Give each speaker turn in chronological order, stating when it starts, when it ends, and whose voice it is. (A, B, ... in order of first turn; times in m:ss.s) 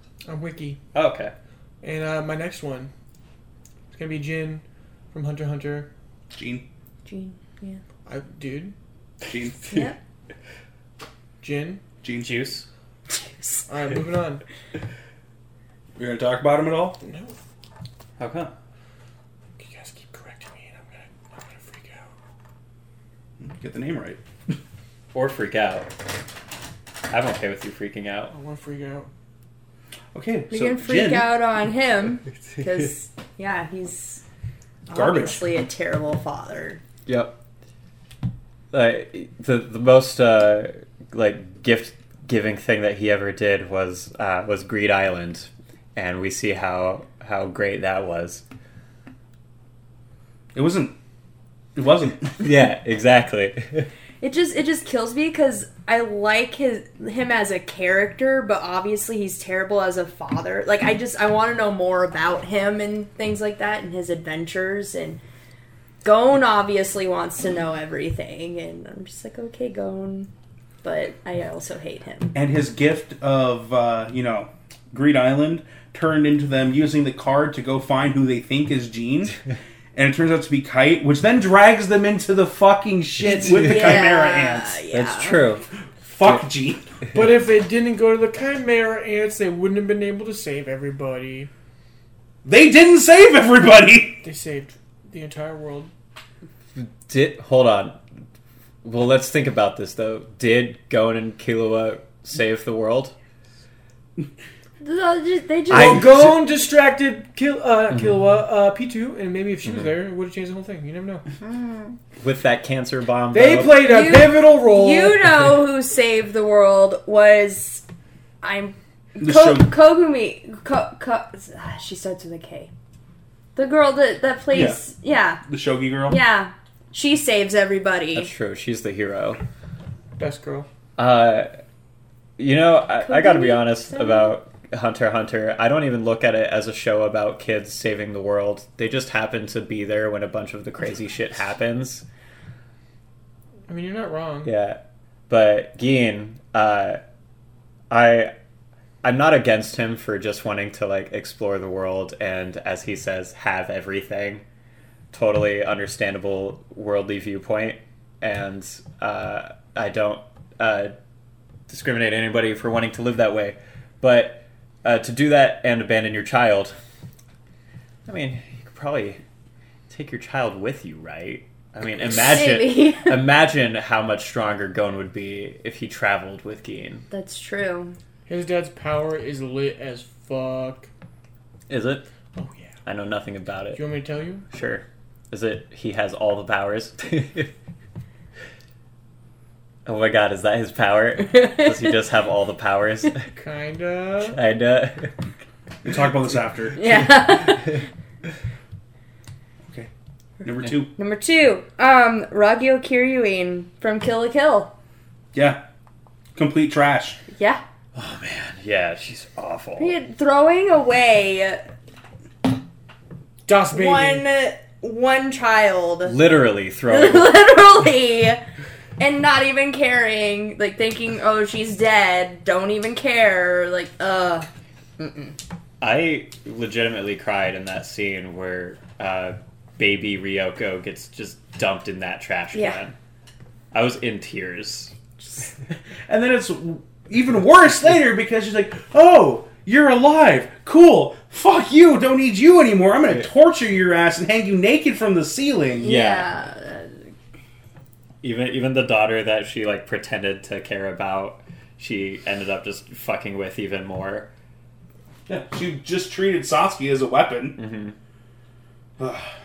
0:00.3-0:00.8 A
0:00.9-0:01.3 B
0:01.8-0:02.9 A
0:03.9-0:05.9 A
0:06.3-0:06.6 C
0:07.0-0:07.8 D
0:08.0-0:08.7 A
0:09.3-0:09.6 C
0:09.7-0:10.0 D
0:11.4-0:11.8 A
0:12.0-0:12.4 C
0:12.1-0:12.6 B
0:13.7-0:14.4 A
0:16.0-0:17.0 C
0:17.0-0:17.3 A
0:18.2-0:18.5 B
0:19.6-0:22.1 A
0:23.4-0:24.5 C
0:25.1-0:25.9 B
0:27.1-0:28.3 B
0:28.3-0:29.1 A
0:30.1-0:31.3 C
0:30.5-0:34.2 D
0:34.9-0:36.8 D
0:34.9-0:35.4 C
0:37.0-0:37.3 B
0:38.7-0:48.4 B
0:50.6-0:50.9 C
0:51.8-0:52.3 C
0:52.4-0:53.9 B
0:54.2-1:05.2 D
1:06.0-1:10.3 D
1:10.8-1:12.3 D
1:12.3-1:19.3 C
1:19.9-1:24.8 C
1:23.3-1:25.4 D
1:24.9-1:25.6 B
1:26.0-1:26.9 C
1:27.1-1:31.5 A
1:32.4-1:34.2 C
1:34.2-1:35.9 A
1:36.8-1:38.0 B
1:38.8-1:43.1 B
1:44.8-1:46.1 D
1:45.7-1:46.4 B
1:45.7-1:51.2 A
1:52.2-1:53.8 B
1:53.3-1:55.3 A
1:53.8-1:57.8 D
1:58.4-2:02.7 D
1:59.2-1:59.7 C
2:03.6-2:05.4 D
2:04.5-2:04.8 C
2:05.4-2:06.2 C
2:06.1-2:08.3 D
2:08.1-2:09.4 B
2:10.2-2:10.7 A
2:11.0-2:11.5 B
2:12.4-2:22.0 B
2:13.0-2:14.4 D
2:23.7-2:24.5 A
2:24.4-2:27.0 B
2:27.9-2:28.3 B
2:29.0-2:34.4 B
2:35.1-2:40.9 B
2:41.7-2:46.7 B
2:48.0-2:49.2 B
2:49.9-2:57.0 B
2:52.0-2:53.2 D
2:57.1-2:58.0 D
2:58.3-3:00.9 A
3:01.7-3:02.0 B
3:02.4-3:02.7 A
3:02.9-3:03.8 B
3:03.7-3:04.4 A
3:04.5-3:07.5 B
3:09.9-3:13.3 B
3:11.3-3:11.9 D
3:13.3-3:14.4 A
3:14.3-3:15.1 B
3:15.8-3:16.8 C
3:16.8-3:17.8 D
3:20.4-3:20.9 C
3:21.0-3:24.7 D
3:25.3-3:25.6 C
3:26.3-3:27.2 C
3:27.3-3:27.6 D
3:27.9-3:29.9 B
3:29.8-3:31.6 D
3:33.4-3:34.2 A
3:33.7-3:36.2 D
3:36.0-3:37.3 B
3:36.9-3:38.4 D
3:39.0-3:44.5 D
3:45.0-3:45.3 D
3:45.8-3:52.9 B
3:53.7-3:54.9 B
3:56.1-4:05.9 C
4:05.8-4:07.0 D
4:05.8-4:06.3 B
4:08.2-4:14.3 B
4:15.3-4:17.6 C
4:17.6-4:17.9 B
4:19.0-4:19.3 C